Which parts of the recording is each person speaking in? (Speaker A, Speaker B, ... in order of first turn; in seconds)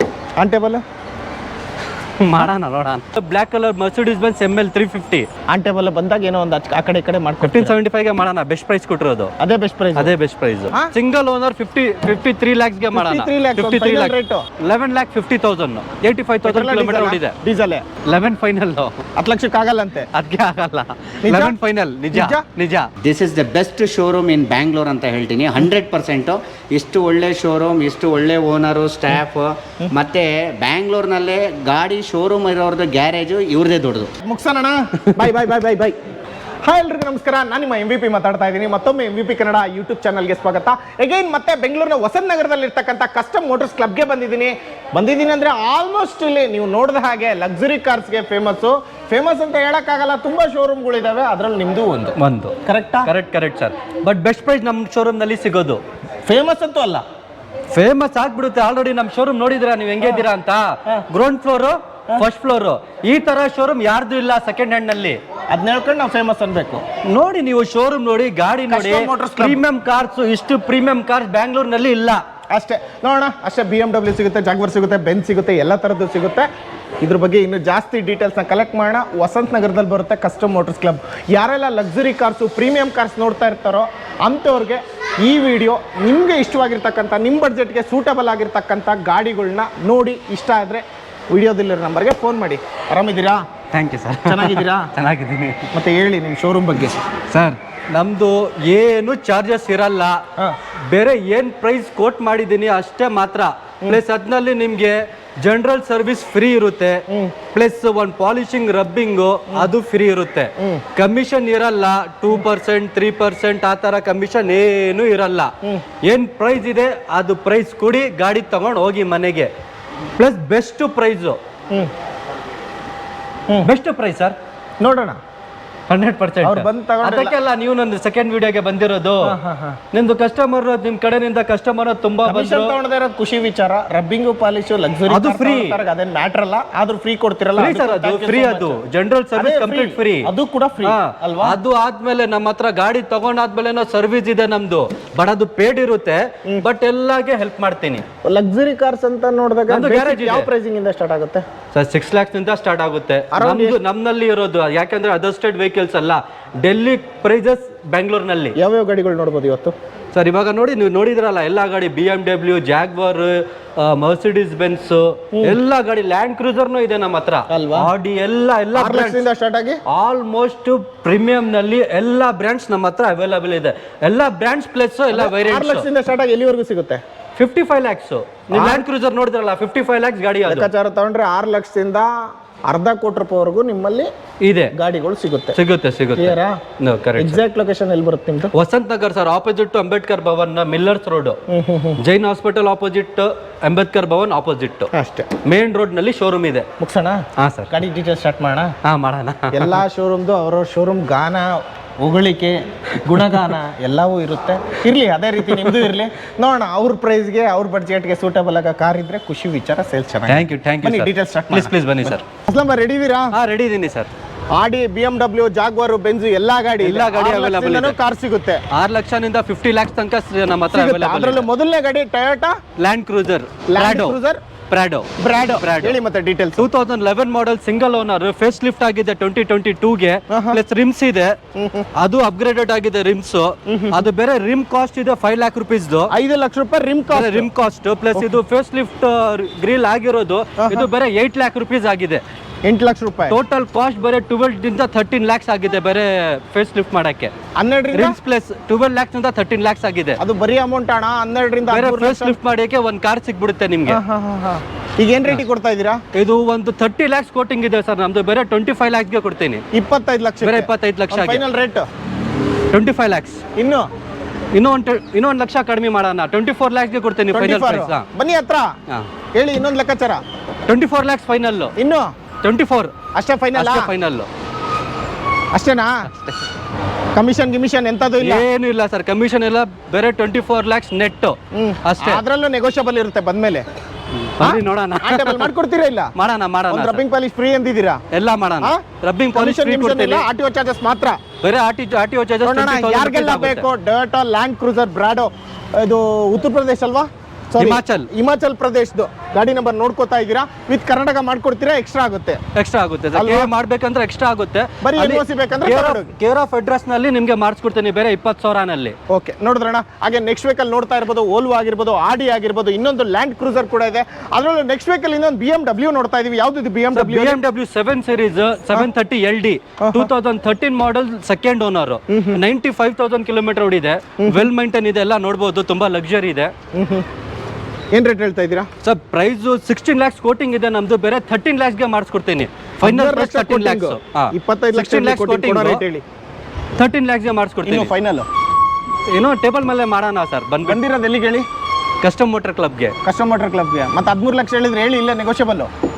Speaker A: 0.4-0.8, 5.5-7.7, 9.4-10.1, 12.9-14.4, 16.4-17.8, 19.1-20.1, 21.2-21.5, 22.1-22.4, 34.2-36.0, 36.6-53.1, 56.3-57.0, 65.5-66.8, 68.7-69.6, 72.5-76.5, 77.0-93.4, 94.2-94.9, 95.7-97.0, 107.1-107.3, 124.8-125.2, 126.4-127.3, 129.2-129.8, 132.2-138.8, 139.3-141.6, 148.2-151.4, 153.3-153.8, 158.6-159.7, 167.5-167.9, 168.7-169.8, 175.1-177.0, 178.5-178.8, 180.5-184.1, 184.7-185.6, 186.2-186.6, 187.2-188.5, 191.5-192.0, 194.9-195.3, 196.8-198.7, 199.5-213.3, 214.5-218.6, 220.7-222.6, 223.7-224.4, 225.2-226.7, 230.3-230.6, 231.6-231.9, 233.7-234.0, 236.1-237.5, 240.6-240.9, 242.7-243.3, 247.6-248.2, 250.2-252.3, 253.9-256.0, 259.7-261.9, 263.6-263.9, 267.3-268.8, 269.3-270.2, 271.8-272.1, 273.1-273.9, 275.5-276.1, 277.1-278.4, 281.5-283.7, 284.4-286.1, 286.7-288.0, 289.3-291.2, 292.4-302.4, 303.1-303.5, 304.8-306.1, 309.1-317.4, 319.8-320.1, 322.1-322.4, 324.2-324.5, 326.7-327.1, 327.9-328.7, 332.8-336.0, 337.6-338.2, 340.6-341.4, 343.0-345.7
Speaker B: 2.2-5.3, 7.4-9.3, 9.9-17.4, 18.0-19.0, 20.1-22.9, 52.2-55.8, 57.7-65.2, 67.0-72.2, 93.7-95.7, 97.3-100.2, 100.9-119.5, 120.2-121.4, 123.6-124.3, 125.9-129.4, 129.9-132.8, 135.1-135.8, 137.6-140.3, 140.8-148.0, 149.7-150.5, 151.7-158.6, 160.1-169.2, 169.9-175.8, 177.3-180.7, 184.4-184.7, 185.5-187.4, 188.5-191.4, 192.0-194.9, 195.4-196.7, 197.4-197.7, 198.8-199.7, 210.3-212.2, 213.3-214.1, 216.8-217.9, 218.7-221.5, 222.8-224.2, 224.7-225.9, 226.6-231.3, 231.9-236.1, 237.1-242.2, 243.3-247.3, 247.9-250.2, 251.7-254.0, 256.1-259.6, 260.4-261.4, 262.7-263.4, 264.5-268.0, 270.7-271.7, 272.4-272.9, 273.5-274.3, 278.2-282.2, 284.2-285.5, 286.1-287.0, 288.1-290.2, 291.4-293.6, 297.6-298.1, 302.5-309.0, 316.9-326.5, 328.8-335.8, 336.8-337.9, 339.1-340.8, 342.0-342.9
Speaker C: 23.0-34.1